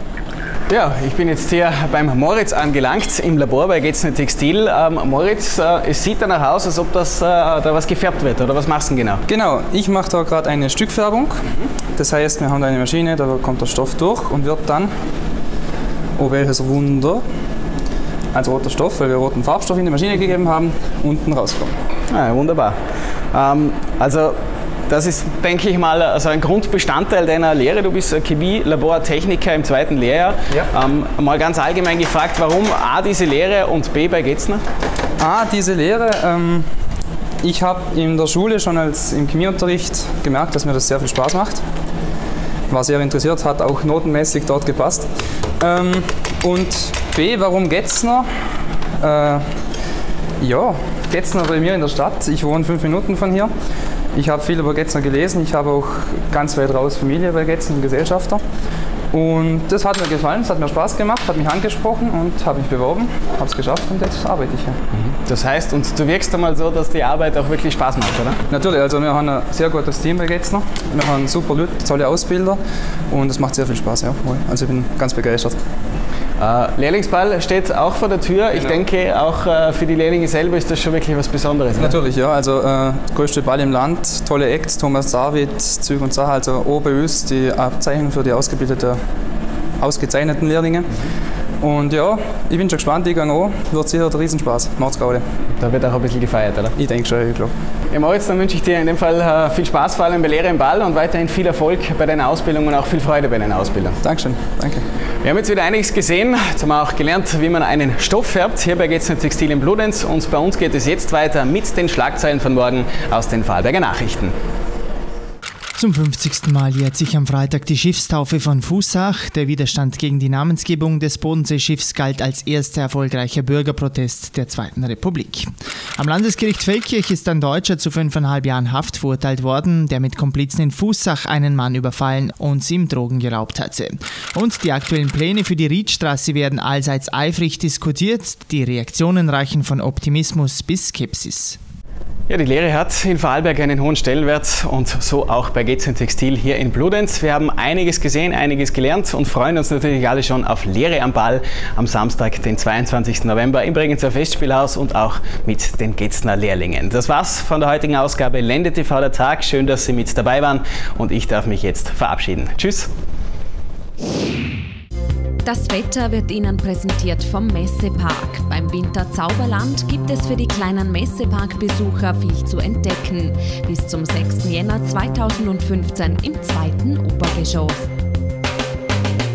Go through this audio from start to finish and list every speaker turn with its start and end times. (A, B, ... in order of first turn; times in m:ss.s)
0:00.7-0:09.2 A
0:09.3-0:11.4 B
0:12.0-0:14.9 B
0:16.2-0:17.2 B
0:18.3-0:21.7 B
0:22.1-0:22.8 A
0:23.3-0:24.3 A
0:24.9-0:34.6 A
0:35.2-0:36.6 B
0:37.4-0:41.6 B
0:42.7-0:45.0 B
0:45.6-0:48.2 B
0:49.0-0:49.4 B
0:50.4-0:53.5 B
0:54.1-0:58.4 B
0:59.1-1:04.8 B
1:04.9-1:08.4 A
1:08.5-1:12.6 B
1:13.1-1:15.6 B
1:16.4-1:22.0 A
1:21.8-1:29.0 B
1:29.8-1:30.9 B
1:31.6-1:35.2 B
1:35.6-1:36.7 A
1:36.8-1:37.5 B
1:37.9-1:44.0 A
1:44.0-1:44.8 B
1:45.2-1:54.3 A
1:55.8-2:21.6 C
2:22.3-2:42.9 A
2:45.4-2:57.8 D